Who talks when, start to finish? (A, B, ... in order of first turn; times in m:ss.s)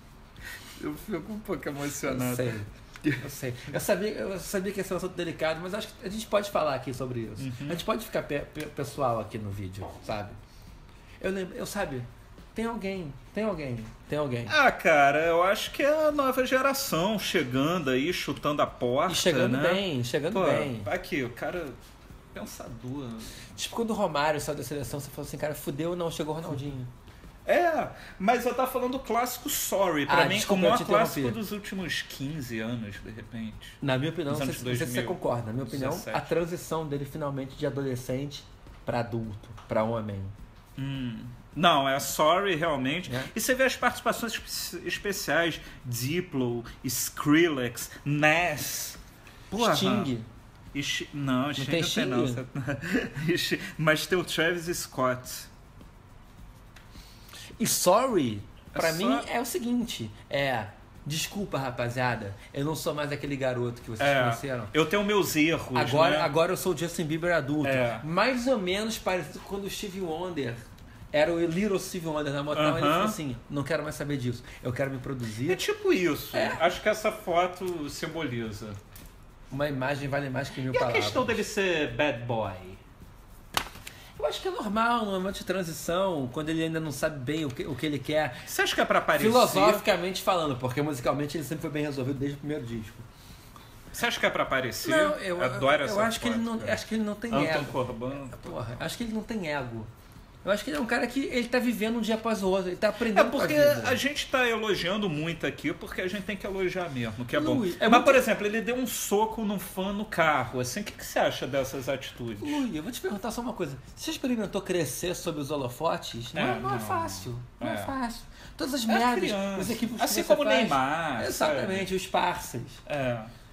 0:00.8-0:03.2 A
0:02.0-0:10.4 B
0:07.4-0:07.8 A
0:11.2-0:14.6 B
0:14.5-0:21.8 A
0:19.1-0:20.9 B
0:22.3-0:23.4 A
0:23.6-0:26.9 B
0:27.4-0:36.3 A
0:30.1-0:31.4 B
0:33.8-0:40.3 B
0:40.8-0:49.0 A
0:49.5-0:50.1 A
0:49.5-0:50.3 B
0:50.7-0:55.5 A
0:51.6-0:52.4 B
0:57.6-1:04.7 B
0:58.7-0:59.3 A
1:04.0-1:06.3 A
1:05.7-1:15.6 B
1:07.6-1:08.0 A
1:12.5-1:13.2 A
1:15.4-1:18.8 A
1:16.3-1:16.6 B
1:19.5-1:21.4 B
1:20.7-1:22.8 A
1:24.2-1:28.5 B
1:28.4-1:29.9 A
1:29.1-1:33.1 B
1:33.9-1:38.8 A
1:34.8-1:39.9 B
1:40.4-1:44.0 B
1:43.0-1:52.6 A
1:47.3-1:48.2 B
1:52.4-2:02.8 B
1:56.3-1:58.0 A
1:58.9-2:01.9 A
2:02.9-2:03.3 A